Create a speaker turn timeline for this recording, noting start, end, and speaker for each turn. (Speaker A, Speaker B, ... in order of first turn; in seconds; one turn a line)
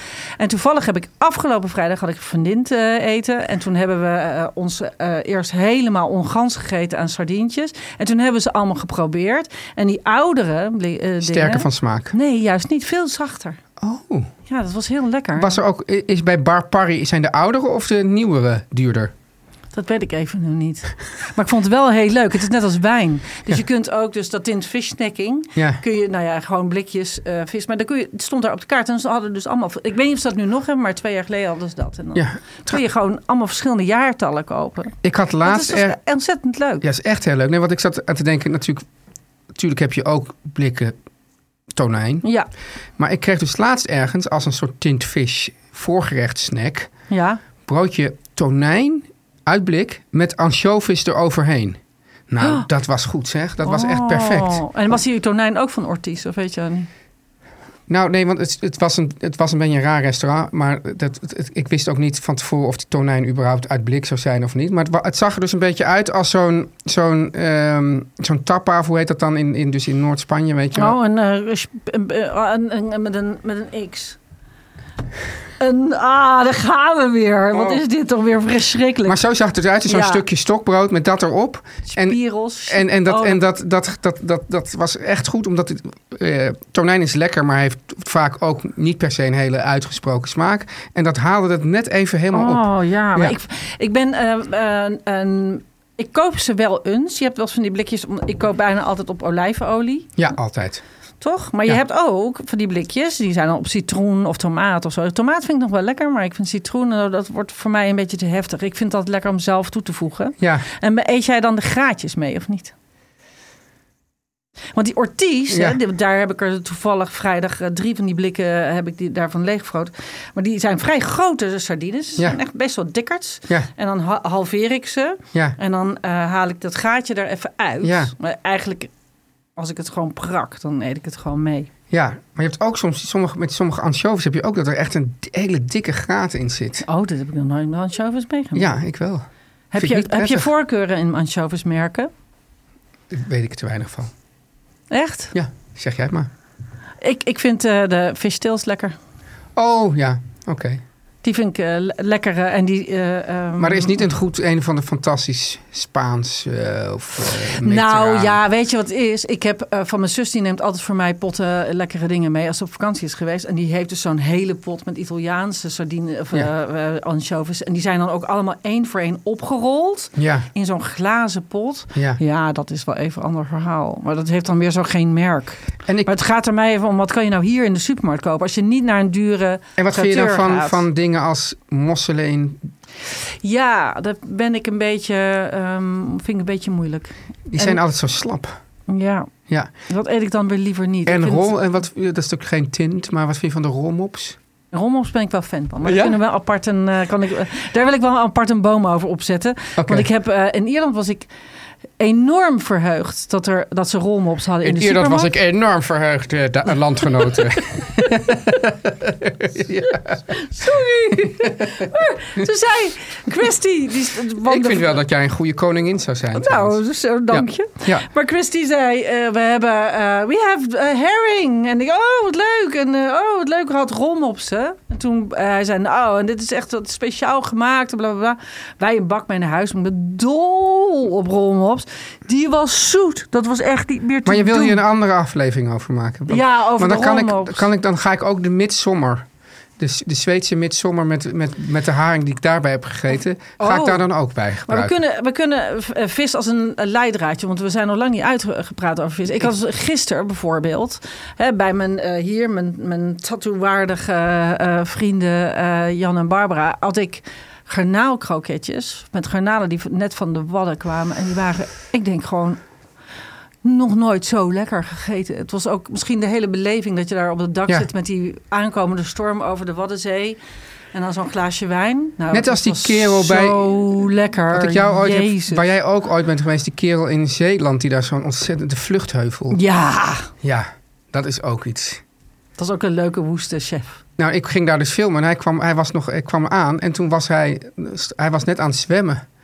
Speaker A: 0.4-13.6
Speaker B: 11.2-12.1
Speaker B: 13.8-14.3
Speaker A: 14.5-15.6
Speaker B: 15.4-19.1
Speaker A: 19.7-36.9
Speaker B: 25.6-25.8
Speaker B: 32.1-32.8
Speaker B: 35.0-36.0
Speaker B: 36.8-38.9
Speaker B: 39.5-41.0
Speaker B: 41.7-42.2
Speaker A: 42.2-42.5
Speaker B: 43.0-46.9
Speaker A: 47.1-47.4
Speaker B: 47.6-54.6
Speaker A: 52.4-52.7
Speaker A: 53.6-56.9
Speaker B: 57.9-71.0
Speaker A: 70.7-74.2
Speaker A: 75.6-79.2
Speaker B: 77.5-77.8
Speaker B: 79.0-93.4
Speaker A: 79.9-80.2
Speaker A: 81.9-83.4
Speaker A: 92.3-100.1
Speaker B: 100.2-100.8
Speaker A: 101.2-112.7
Speaker B: 110.4-110.6
Speaker A: 114.7-128.9
Speaker B: 115.5-115.8
Speaker B: 127.8-128.1
Speaker A: 129.6-131.7
Speaker B: 131.9-136.9
Speaker A: 136.8-138.7
Speaker B: 138.5-139.2
Speaker A: 139.7-142.1
Speaker B: 139.8-140.5
Speaker B: 143.1-144.1
Speaker A: 144.9-145.3
Speaker B: 145.3-146.3
Speaker A: 147.0-148.9
Speaker B: 149.6-150.8
Speaker A: 151.2-154.1
Speaker B: 153.6-158.4
Speaker A: 157.6-180.8
Speaker B: 170.2-170.5
Speaker B: 171.9-172.2
Speaker B: 179.8-182.7
Speaker A: 183.2-187.8
Speaker B: 187.5-188.5
Speaker A: 188.9-189.3
Speaker A: 189.9-191.5
Speaker B: 191.1-194.4
Speaker A: 194.7-201.3
Speaker B: 195.8-196.2
Speaker B: 199.8-200.1
Speaker A: 202.0-205.3
Speaker B: 204.6-210.4
Speaker A: 210.3-215.0
Speaker B: 211.2-211.9
Speaker B: 214.4-216.8
Speaker A: 216.3-234.8
Speaker B: 217.3-218.1
Speaker B: 234.2-239.3
Speaker A: 236.3-237.7
Speaker B: 239.8-244.9
Speaker A: 243.6-244.0
Speaker A: 244.6-262.6
Speaker A: 263.6-270.4
Speaker A: 270.9-275.7
Speaker B: 272.3-279.6
Speaker A: 279.5-280.3
Speaker B: 280.4-282.0
Speaker A: 282.6-284.0
Speaker B: 284.2-289.2